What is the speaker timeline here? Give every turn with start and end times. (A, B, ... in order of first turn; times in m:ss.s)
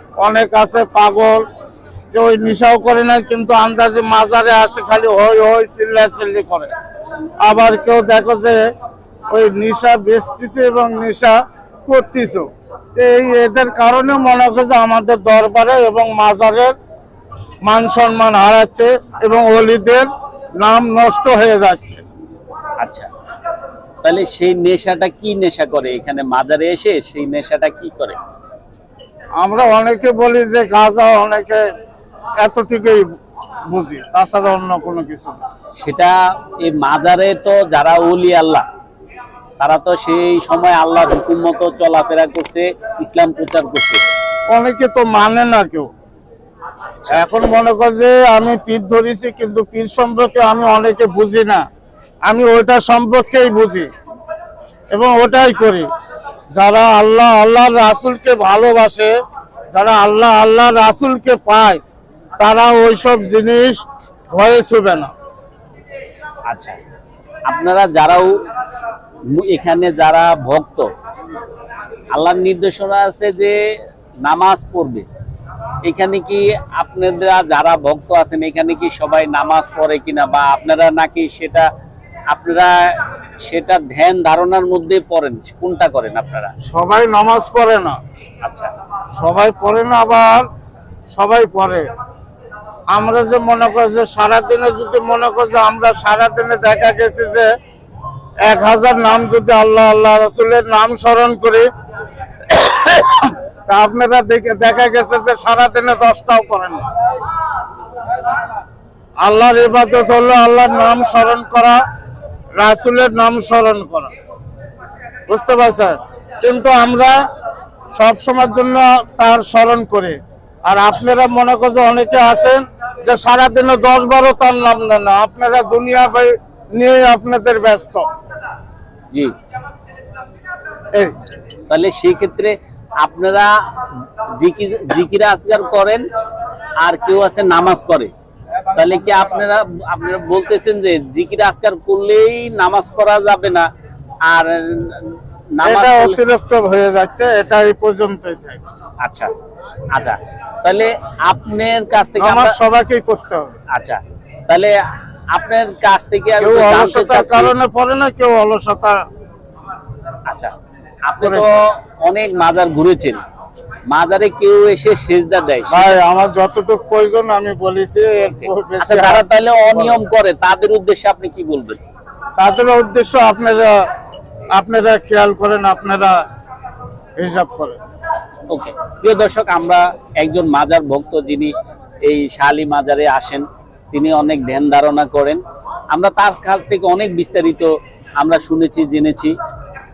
0:00.2-0:01.4 A
0:02.1-0:06.7 A
0:07.4-0:08.6 A
0:09.3-0:16.7 A
0:17.7-0:20.1 A
0:20.6-0:22.0 A
0:22.8-0:23.1 B
0:24.0-0:28.2 B
0:29.4-0:31.6 A
0:32.4-0:33.0 A
0:33.7-0:35.4 A
0:35.8-0:38.6 B
0:39.6-0:44.0 B
0:44.5-0:45.9 A
0:47.1-0:51.6 A
0:52.3-0:53.9 A
0:54.9-0:55.9 A
0:56.6-0:59.1 A
0:59.7-1:01.8 A
1:02.4-1:05.1 A
1:06.5-1:06.8 B
1:07.5-1:08.4 B
1:09.3-1:10.9 B
1:12.1-1:13.6 B
1:14.2-1:15.1 B
1:15.8-1:21.7 B
1:22.3-1:22.9 B
1:23.5-1:26.5 B
1:26.6-1:28.0 A
1:28.4-1:28.7 B
1:29.2-1:30.5 A
1:31.1-1:31.9 A
1:32.9-1:37.5 A
1:38.4-1:41.7 A
1:42.5-1:46.8 A
1:49.2-1:51.8 A
1:52.6-1:54.1 A
1:55.3-1:57.2 A
1:57.9-2:08.1 A
2:11.7-2:13.6 B
2:14.4-2:16.0 B
2:16.8-2:18.1 B
2:18.7-2:23.7 B
2:24.3-2:26.2 B
2:25.6-2:28.6 A
2:29.0-2:29.3 B
2:29.9-2:32.6 B
2:32.2-2:33.5 A
2:33.7-2:34.8 B
2:35.3-2:37.5 B
2:36.4-2:39.0 A
2:41.1-2:43.2 B
2:41.2-2:41.6 A
2:43.9-2:45.9 B
2:45.7-2:50.0 A
2:48.8-2:51.8 B
2:52.4-2:53.8 A
2:54.6-2:56.2 A
2:57.2-2:57.8 A
2:58.5-3:01.5 B
3:02.0-3:05.4 B
3:05.9-3:09.4 B